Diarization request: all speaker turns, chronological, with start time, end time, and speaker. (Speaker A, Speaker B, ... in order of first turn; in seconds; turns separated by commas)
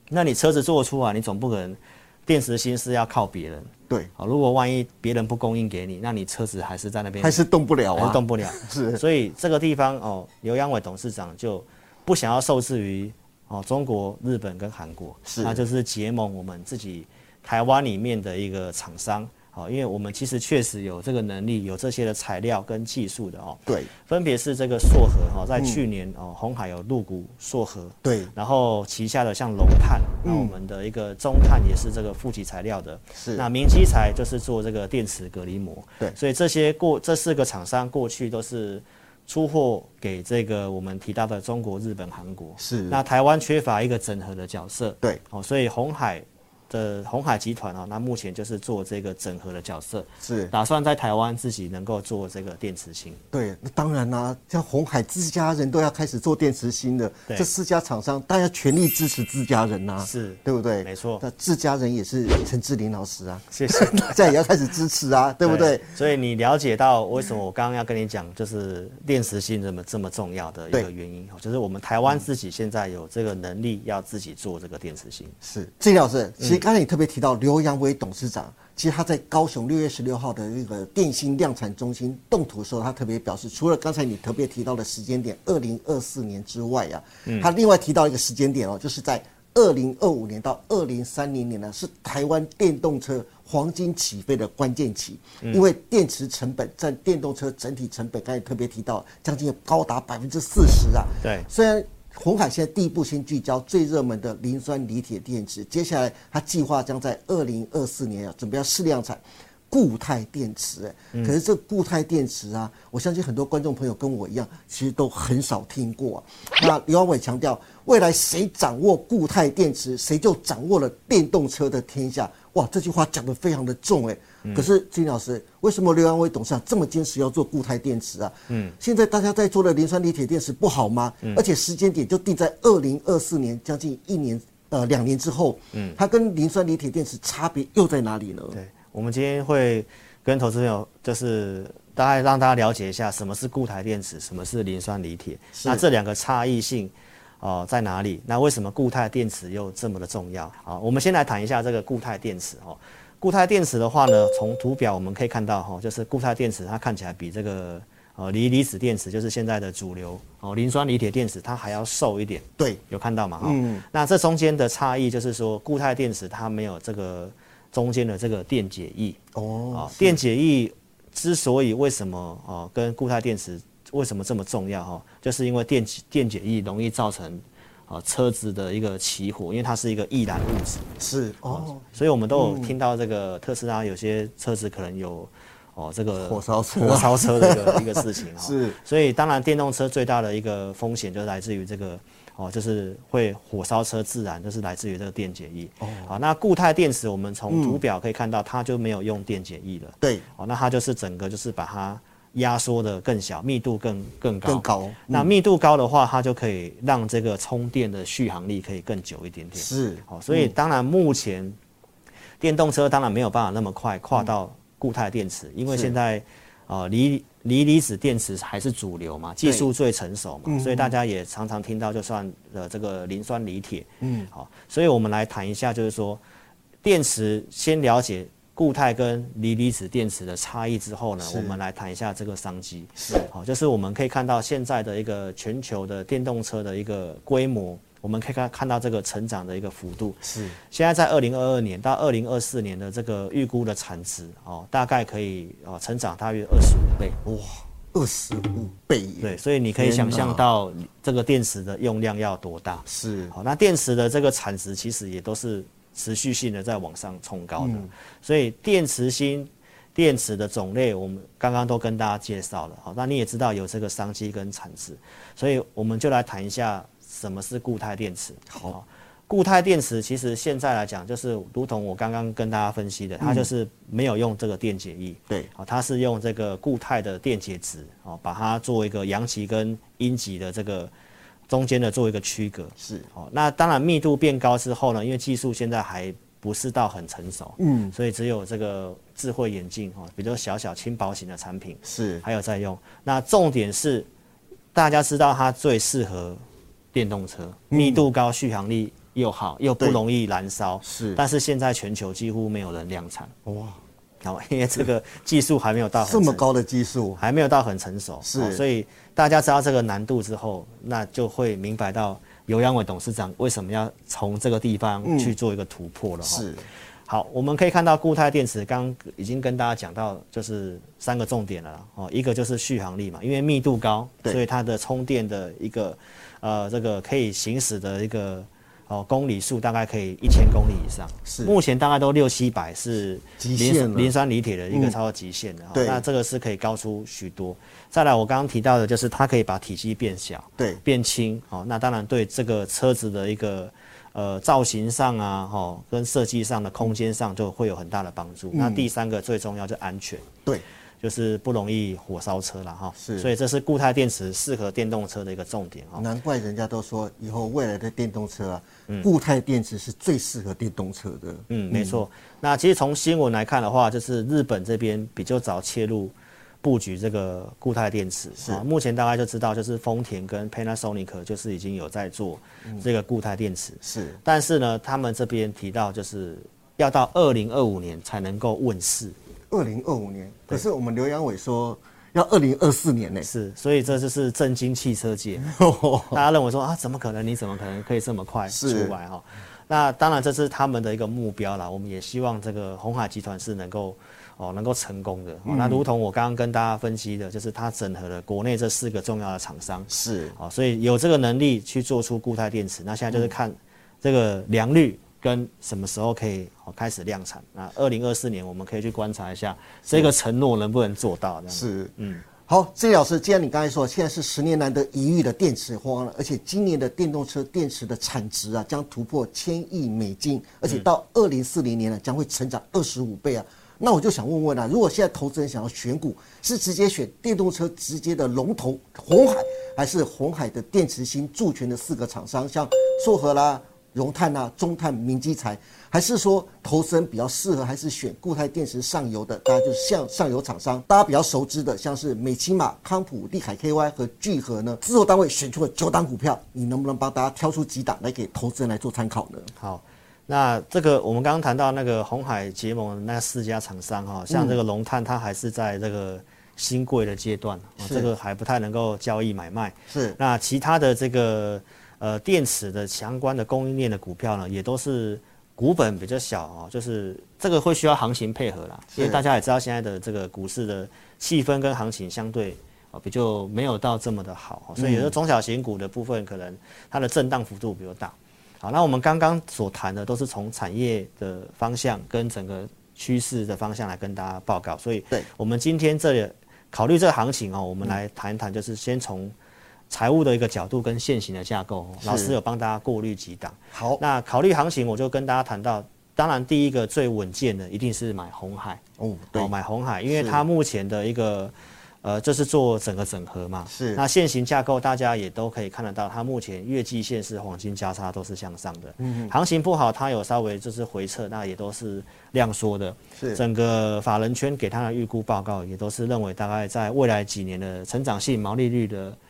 Speaker A: 0.1-7.4, Speaker B: 7.2-9.0, Speaker A: 7.9-53.2, Speaker B: 15.3-15.6, Speaker B: 25.6-25.8, Speaker B: 28.0-28.3, Speaker B: 30.2-30.6, Speaker B: 33.2-33.5, Speaker B: 42.6-43.0, Speaker B: 50.2-50.5, Speaker B: 53.3-65.9, Speaker A: 60.0-61.2, Speaker A: 63.5-64.4, Speaker A: 65.4-75.3, Speaker B: 75.4-138.6, Speaker A: 87.3-87.5, Speaker A: 101.2-101.5, Speaker A: 124.4-124.7, Speaker A: 128.5-128.8, Speaker A: 135.7-136.0, Speaker A: 138.5-169.2, Speaker B: 145.6-145.9, Speaker B: 163.4-163.8, Speaker B: 169.3-170.2, Speaker A: 169.7-180.9, Speaker B: 181.0-182.8, Speaker A: 181.5-211.6, Speaker B: 186.2-188.8, Speaker B: 195.8-196.2, Speaker B: 197.5-197.8, Speaker B: 204.4-205.3, Speaker B: 209.6-210.5, Speaker A: 212.4-226.2, Speaker B: 215.7-215.9, Speaker B: 219.4-219.7, Speaker B: 220.5-220.9, Speaker B: 224.0-224.3, Speaker A: 226.8-247.2, Speaker B: 231.2-231.6, Speaker B: 233.0-233.3, Speaker B: 240.2-240.6, Speaker B: 247.2-250.4, Speaker A: 249.2-280.9, Speaker B: 252.9-253.3, Speaker B: 257.6-257.9, Speaker B: 268.5-268.8, Speaker B: 273.2-273.5, Speaker A: 281.5-294.1, Speaker B: 282.8-283.1, Speaker B: 287.6-287.9, Speaker B: 291.8-292.2, Speaker A: 294.7-296.4, Speaker A: 296.9-303.3, Speaker B: 297.7-298.1, Speaker B: 300.8-301.2, Speaker B: 303.5-303.8, Speaker A: 304.2-306.4, Speaker B: 306.0-307.2, Speaker A: 307.2-316.5, Speaker B: 308.2-308.6, Speaker B: 315.0-315.4, Speaker B: 316.2-316.7, Speaker A: 317.1-350.3, Speaker B: 331.3-331.6, Speaker B: 333.4-334.1, Speaker B: 334.7-335.0, Speaker B: 335.7-336.1, Speaker B: 348.5-348.9, Speaker A: 351.0-356.1, Speaker B: 353.0-353.3, Speaker B: 356.0-362.0, Speaker A: 361.5-379.1, Speaker B: 368.4-368.6, Speaker B: 373.8-374.2, Speaker B: 379.5-383.3, Speaker A: 383.2-385.6, Speaker B: 385.4-386.2, Speaker A: 386.1-412.2, Speaker B: 388.5-389.0, Speaker B: 395.5-395.9, Speaker B: 399.9-400.4, Speaker B: 409.9-410.1, Speaker B: 411.5-411.9, Speaker B: 412.4-449.5, Speaker A: 449.6-489.3, Speaker B: 454.3-454.6, Speaker B: 457.8-458.1, Speaker B: 459.9-460.2, Speaker B: 468.9-469.2, Speaker B: 474.8-475.1, Speaker A: 489.9-498.8, Speaker B: 492.0-492.4, Speaker B: 493.7-494.0, Speaker B: 499.0-499.5, Speaker A: 499.3-519.2, Speaker B: 500.1-500.4, Speaker B: 503.7-504.0, Speaker B: 509.0-509.3, Speaker B: 513.2-513.4